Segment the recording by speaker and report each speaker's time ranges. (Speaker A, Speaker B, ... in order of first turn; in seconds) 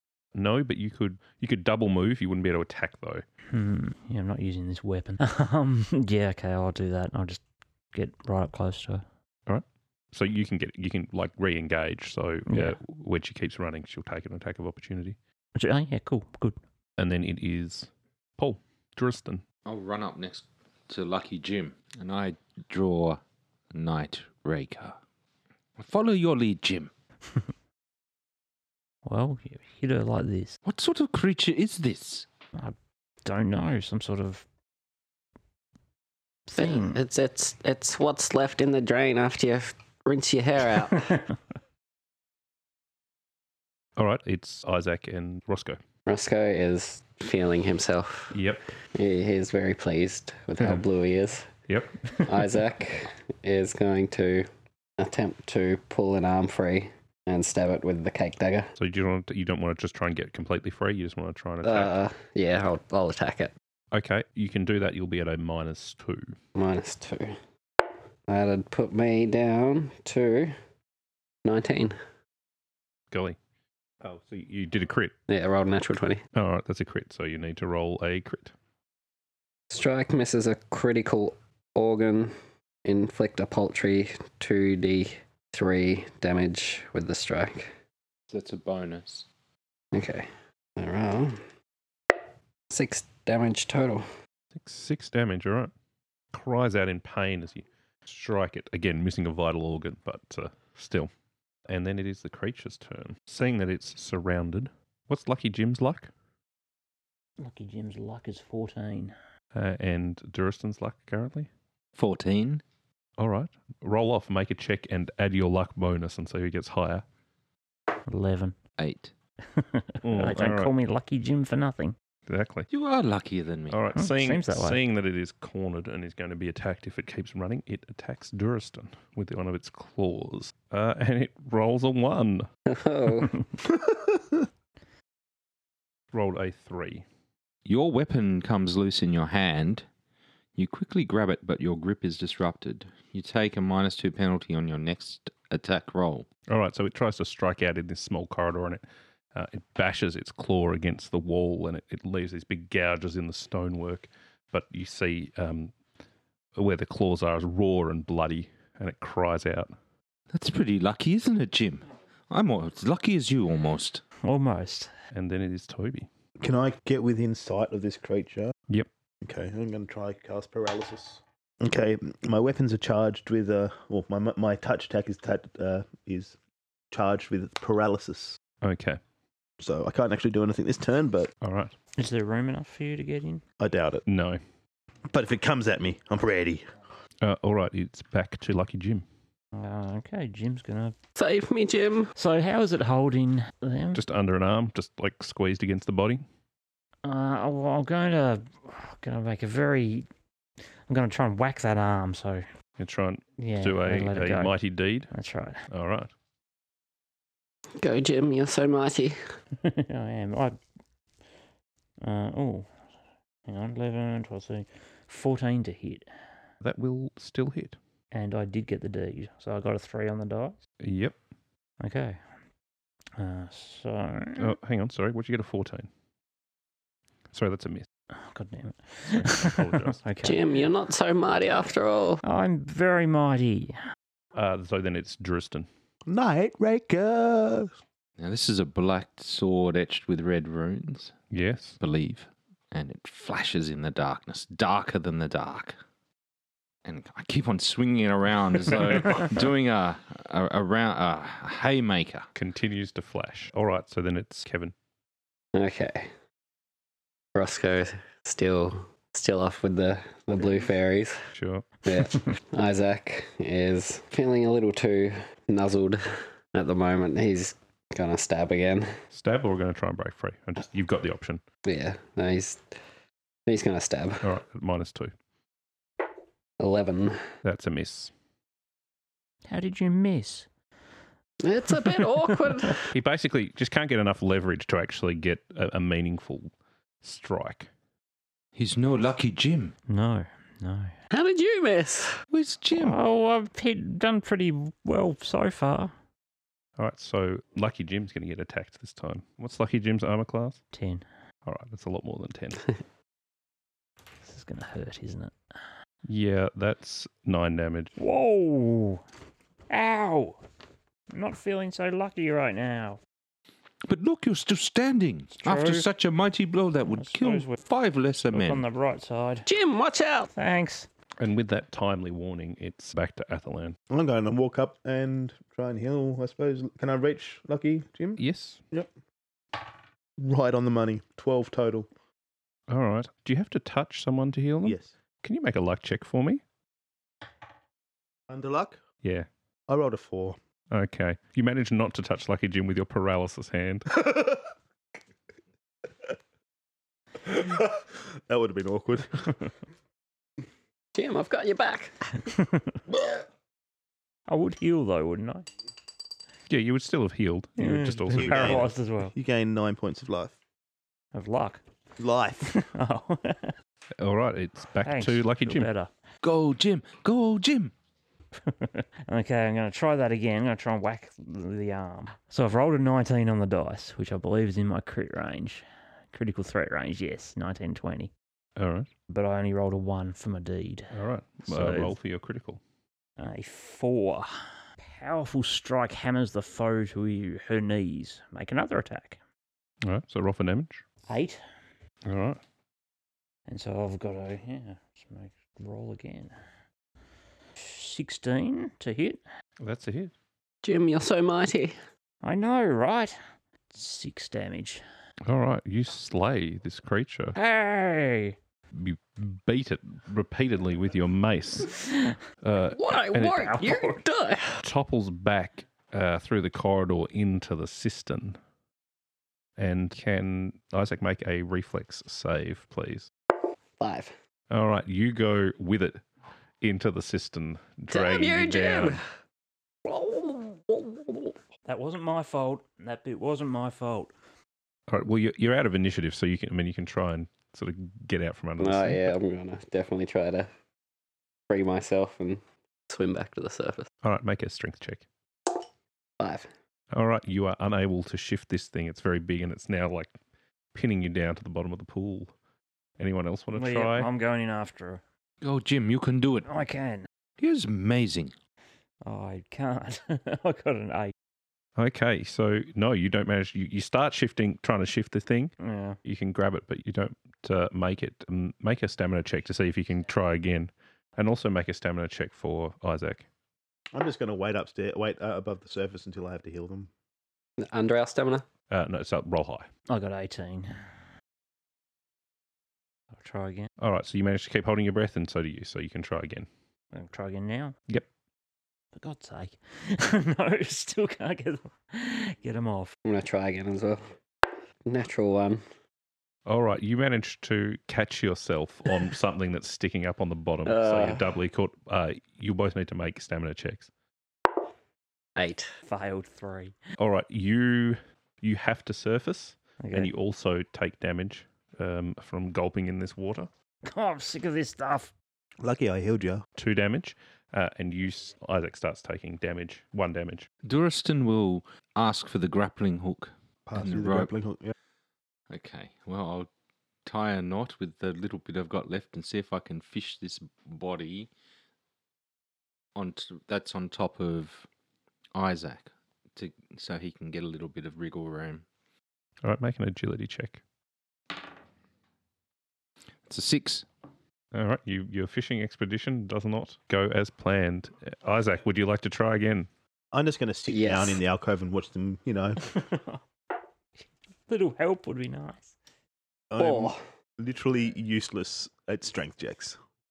Speaker A: 0.3-3.2, 9.5-15.2, 17.0-19.4, 44.0-45.8, 48.3-48.6, 51.7-52.5, 58.8-61.9, 63.9-66.3, 73.1-73.4, 74.0-75.1, 76.3-78.5, 94.5-95.7, 96.3-101.1, 101.7-106.1, 109.5-111.5, 113.2-117.0, 120.0-120.7, 122.3-122.7, 123.7-132.5, 136.1-137.0, 146.5-148.8, 149.3-155.7, 156.6-159.7, 165.1-166.1, 178.6-179.0, 181.4-181.7, 184.1-184.4, 187.2-189.0, 193.9-196.2, 202.8-205.1, 205.7-206.1, 216.6-217.8, 220.8-221.2, 224.4-225.9, 227.3-227.9, 229.1-230.0, 234.3-235.7, 241.3-241.8, 252.3-254.7, 261.3-261.6, 269.1-271.4, 274.2-275.1, 277.4-278.1, 282.9-286.5, 287.0-287.7, 296.8-300.6, 301.4-302.7, 306.1-307.9, 321.2-323.8, 328.2-328.6, 332.7-336.4, 339.0-339.3, 340.7-343.9, 356.5-358.7, 364.0-365.7, 378.6-378.9, 380.9-382.6, 389.8-390.8, 392.1-392.4, 399.6-400.1, 405.2-407.4, 408.7-411.8, 412.4-413.5, 414.6-418.4, 419.6-423.1, 424.5-426.0, 426.6-429.0, 434.9-439.1, 444.0-445.0, 446.9-450.1, 450.7-452.3, 453.0-454.1, 461.8-473.2, 478.7-479.7, 483.8-486.5, 496.4-503.9, 507.0-513.5, 516.5-520.5, 539.4-540.6, 544.5-549.7
Speaker B: 3.5-7.4, 7.9-9.0, 12.5-12.8, 15.6-16.6, 29.0-30.6, 32.5-34.5, 36.5-37.0, 107.4-109.2, 118.0-118.6, 119.4-122.0, 124.0-124.8, 164.2-164.9, 182.0-183.4, 189.5-190.9, 192.2-194.0, 197.0-200.1, 200.9-202.5, 203.4-204.5, 205.1-205.6, 209.6-210.6, 212.0-212.7, 213.5-216.1, 218.1-220.6, 221.8-222.2, 223.2-224.5, 228.1-230.4, 232.2-233.8, 279.5-280.5, 281.7-282.1, 289.9-290.9, 292.7-295.9, 300.7-301.0, 304.2-305.3, 308.0-309.0, 309.7-310.4, 311.1-313.0, 315.3-315.9, 316.9-317.6, 318.3-319.5, 320.3-320.9, 352.2-352.6, 354.3-355.5, 357.6-359.1, 361.1-361.6, 362.4-363.5, 364.8-365.9, 368.4-378.1, 379.1-381.9, 383.2-389.2, 391.1-391.4, 393.5-396.3, 397.6-399.2, 402.2-403.2, 403.7-404.8, 407.3-408.4, 411.7-412.1, 413.4-414.0, 431.6-434.1, 453.5-455.0, 456.4-457.1, 459.0-461.1, 465.6-466.0, 479.9-480.8, 483.2-483.7, 486.9-487.8, 488.9-492.9, 505.8-506.8, 509.8-510.1, 513.9-515.1, 552.6-553.2, 554.5-555.7
Speaker C: 19.6-23.2, 23.7-25.0, 25.8-26.9, 30.6-32.3, 88.3-89.3, 112.0-112.6, 118.8-119.1, 122.7-123.8, 137.7-139.8, 140.6-146.3, 160.3-164.0, 238.2-241.1, 241.8-245.8, 246.8-252.3, 288.5-289.7, 292.3-293.0, 313.9-318.6, 366.2-367.7, 455.4-456.5, 457.4-458.3, 520.6-524.3, 525.5-526.5, 527.0-531.3, 532.9-534.7, 535.3-538.6, 543.3-543.9
Speaker D: 36.5-41.2, 46.0-48.3, 48.9-51.5, 52.2-58.7, 61.6-63.5, 66.5-67.3, 68.3-70.5, 71.4-72.0, 75.3-76.2, 79.7-82.3, 82.8-87.7, 89.9-91.4, 92.7-94.0, 132.7-133.3, 191.1-192.1, 207.8-209.2, 230.2-232.2, 255.5-256.1, 257.3-261.2, 261.9-268.9, 271.6-272.6, 273.5-274.3, 276.6-277.2, 281.4-282.9, 291.1-292.2, 319.4-320.3, 350.9-352.0, 400.6-401.8, 412.7-414.6, 423.8-424.1, 427.9-429.0, 429.8-431.3, 438.6-440.5, 441.5-443.9, 446.2-446.5, 477.6-478.4, 493.0-494.0, 494.8-495.6, 500.6-501.3, 505.4-505.7, 550.7-551.2, 556.6-557.0
Speaker E: 133.7-134.2, 166.4-168.5, 169.2-176.3, 176.9-178.4, 179.6-181.3, 183.6-184.0, 185.1-186.7, 236.1-237.7, 323.9-328.9, 330.2-331.9, 334.6-334.9, 338.3-338.8, 339.7-340.4, 343.9-344.4, 347.2-349.4, 358.1-360.3, 362.0-362.5, 473.9-476.9, 515.6-516.4, 523.6-524.7, 550.1-552.6, 556.5-559.8